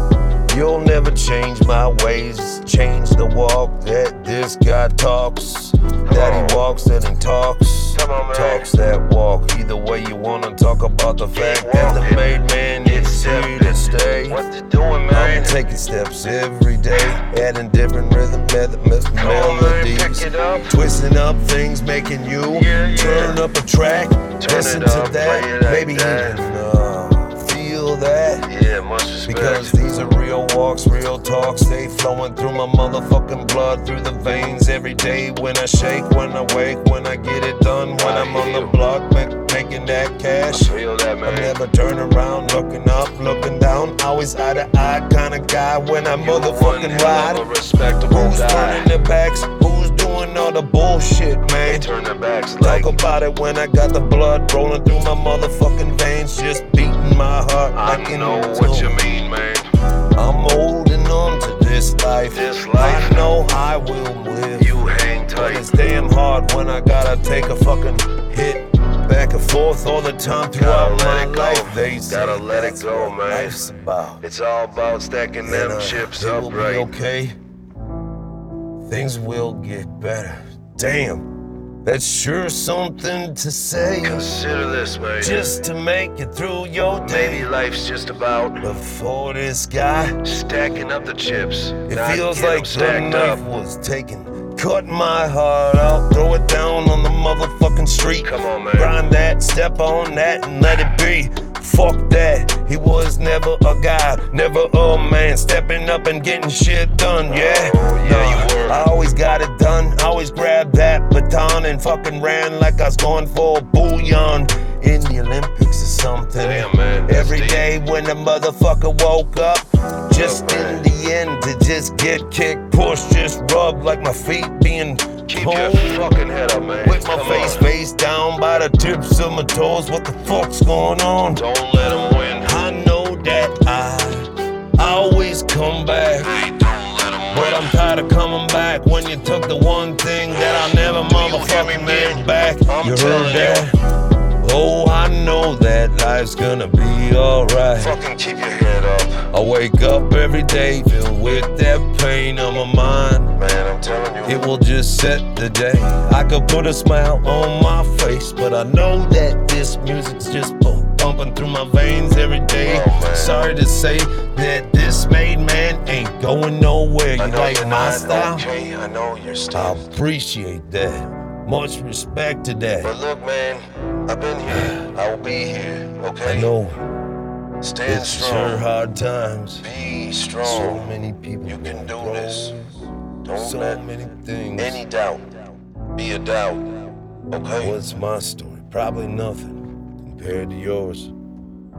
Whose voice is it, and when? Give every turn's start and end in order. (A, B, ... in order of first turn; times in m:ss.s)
0:00.4-0:14.4 A
0:06.0-0:06.6 B
0:07.9-0:08.7 B
0:11.3-0:12.3 B
0:12.8-0:15.6 B
0:15.1-0:28.5 A
0:19.2-0:20.8 B
0:22.5-0:23.4 B
0:24.4-0:26.5 B
0:28.4-0:29.8 B
0:29.2-0:51.9 A
0:38.0-0:38.8 B
0:40.5-0:41.6 B
0:46.1-0:48.9 B
0:51.6-0:53.0 B
0:52.6-0:59.0 A
0:57.7-0:59.7 B
1:00.1-1:14.2 A
1:02.3-1:03.3 B
1:04.6-1:05.8 B
1:10.5-1:13.6 B
1:14.2-1:16.9 B
1:15.4-1:17.4 A
1:18.8-1:21.3 A
1:21.8-1:24.3 A
1:24.0-1:25.5 B
1:25.2-1:27.5 A
1:27.0-1:28.7 B
1:28.6-1:30.2 A
1:30.2-1:33.4 B
1:31.8-2:06.0 A
1:38.2-1:38.9 B
1:47.3-1:48.8 B
1:56.4-1:57.7 B
2:00.1-2:00.9 B
2:05.3-2:07.7 B
2:06.8-2:11.4 A
2:11.3-2:12.5 B
2:12.4-2:16.3 A
2:16.2-2:17.8 B
2:17.3-2:23.7 A
2:20.3-2:23.7 B
2:24.4-2:28.0 A
2:27.8-2:29.3 B
2:29.3-2:33.4 A
2:33.4-2:34.4 B
2:34.2-2:48.5 A
2:42.6-2:43.5 B
2:47.2-2:49.9 B
2:49.5-2:52.9 A
2:52.8-2:56.5 B
2:54.5-2:54.8 A
2:56.2-2:56.8 A
2:57.6-2:58.6 B
2:57.8-2:59.7 A
2:59.6-3:00.9 B
3:00.4-3:04.8 A
3:01.4-3:02.6 B
3:03.2-3:03.8 B
3:04.6-3:07.8 B
3:07.6-3:11.1 A